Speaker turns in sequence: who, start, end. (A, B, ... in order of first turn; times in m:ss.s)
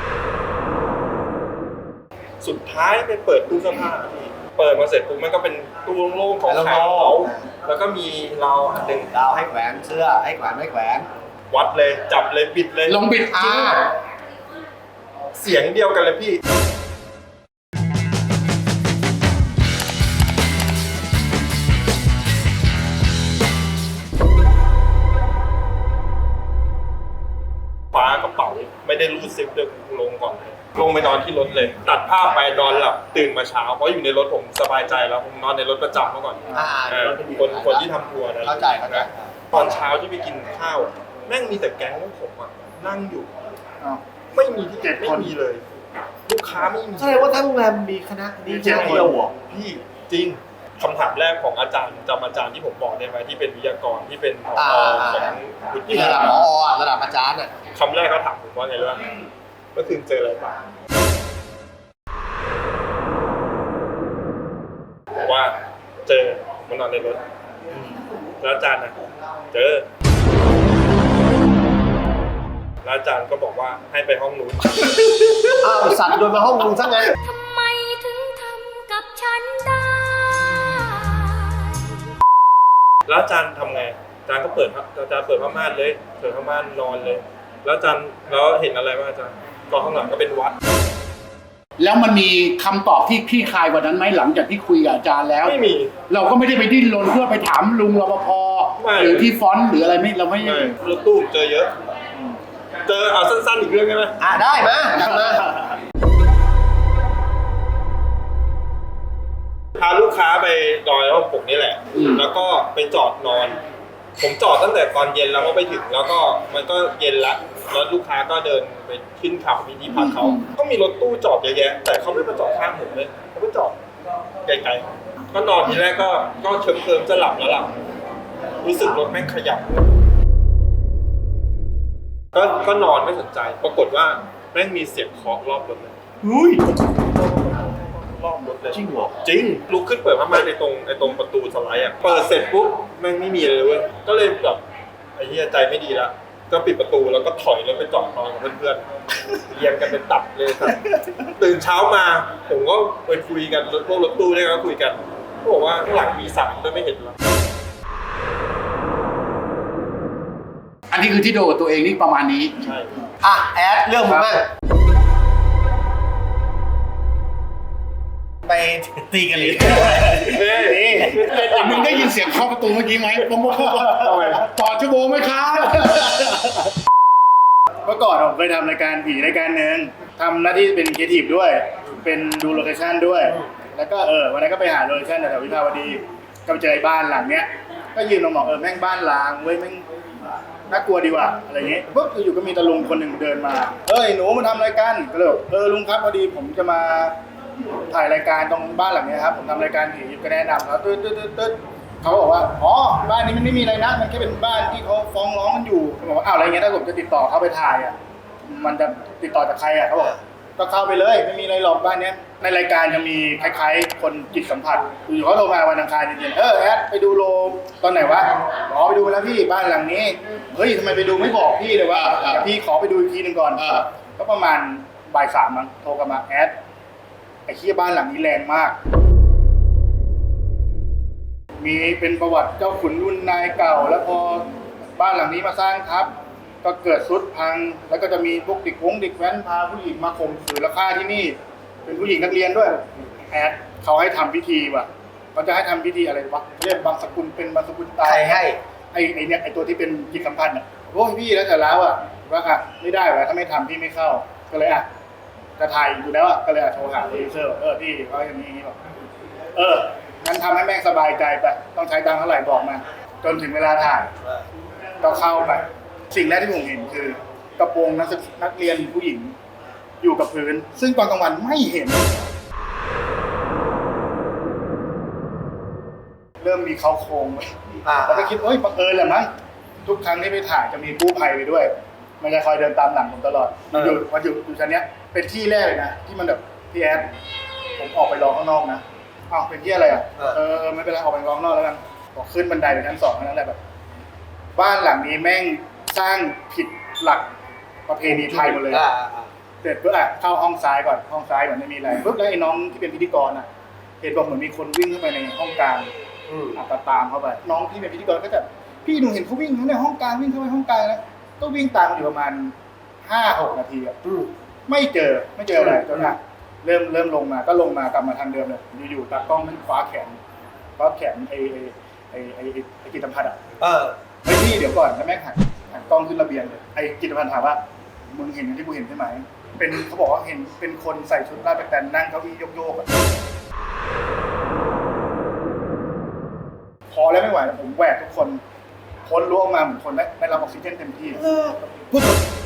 0:02.4-0:09.1 A
0:06.5-0:07.4 B
0:08.8-0:11.1 B
0:11.5-0:13.0 A
0:12.9-0:13.8 C
0:13.3-0:13.9 B
0:15.3-0:16.4 A
0:27.9-0:43.3 A
0:36.5-0:37.9 B
0:38.4-0:39.4 B
0:44.3-0:45.6 A
0:44.8-0:45.4 D
0:46.3-0:47.4 A
0:47.0-0:49.3 B
0:48.5-0:49.2 D
0:48.6-0:56.5 A
0:54.5-0:55.4 B
0:55.9-0:57.5 B
0:57.7-0:59.1 A
0:59.7-1:00.6 A
1:05.2-1:07.2 A
1:08.4-1:09.0 A
1:09.5-1:09.9 A
1:12.8-1:15.6 A
1:15.6-1:17.1 B
1:17.2-1:22.0 E
1:23.1-1:30.5 A
1:31.8-1:40.8 C
1:35.4-1:35.9 A
1:38.8-1:39.3 A
1:40.4-1:41.7 A
1:42.8-1:44.2 A
1:44.2-1:45.5 B
1:49.8-1:53.6 A
1:54.2-2:03.8 A
1:59.9-2:00.4 C
2:04.4-2:07.7 A
2:08.6-2:09.9 A
2:12.3-2:15.9 A
2:16.2-2:16.7 B
2:16.9-2:24.6 A
2:18.7-2:19.2 B
2:25.2-2:37.2 A
2:40.9-2:42.5 C
2:42.6-2:43.0 A
2:43.2-2:44.5 B
2:48.4-2:50.2 B
2:49.3-2:51.2 D
2:50.2-2:52.1 A
2:51.0-2:51.8 B
2:51.3-2:56.2 C
2:53.8-2:54.1 D
2:54.0-2:54.5 A
2:57.8-3:09.8 D
3:10.7-3:17.2 D
3:17.9-3:28.0 D
3:28.5-3:46.6 D
3:42.0-3:42.5 C
3:43.6-3:43.9 C
3:47.5-3:48.8 D
3:51.6-4:14.9 D
4:08.0-4:08.6 B
4:15.6-4:18.8 D
4:19.6-4:24.1 D
4:25.0-4:29.3 D
4:30.0-4:32.3 D
4:36.4-4:37.5 D
4:37.8-4:38.4 B
4:38.0-4:39.3 D
4:39.8-4:47.1 D
4:43.7-4:44.0 B
4:47.8-4:53.6 D
4:54.6-4:57.3 D
4:57.9-4:58.8 D
4:58.0-4:59.3 B
4:59.6-5:03.5 D
5:04.0-5:05.9 D
5:06.3-5:06.6 B
5:06.6-5:14.0 D
5:14.0-5:14.3 B
5:14.7-5:20.2 D
5:15.6-5:16.1 B
5:20.8-5:23.4 D
5:23.6-5:24.0 B
5:24.2-5:32.9 D
5:36.9-5:38.4 D
5:39.1-5:41.2 D
5:41.2-5:42.2 B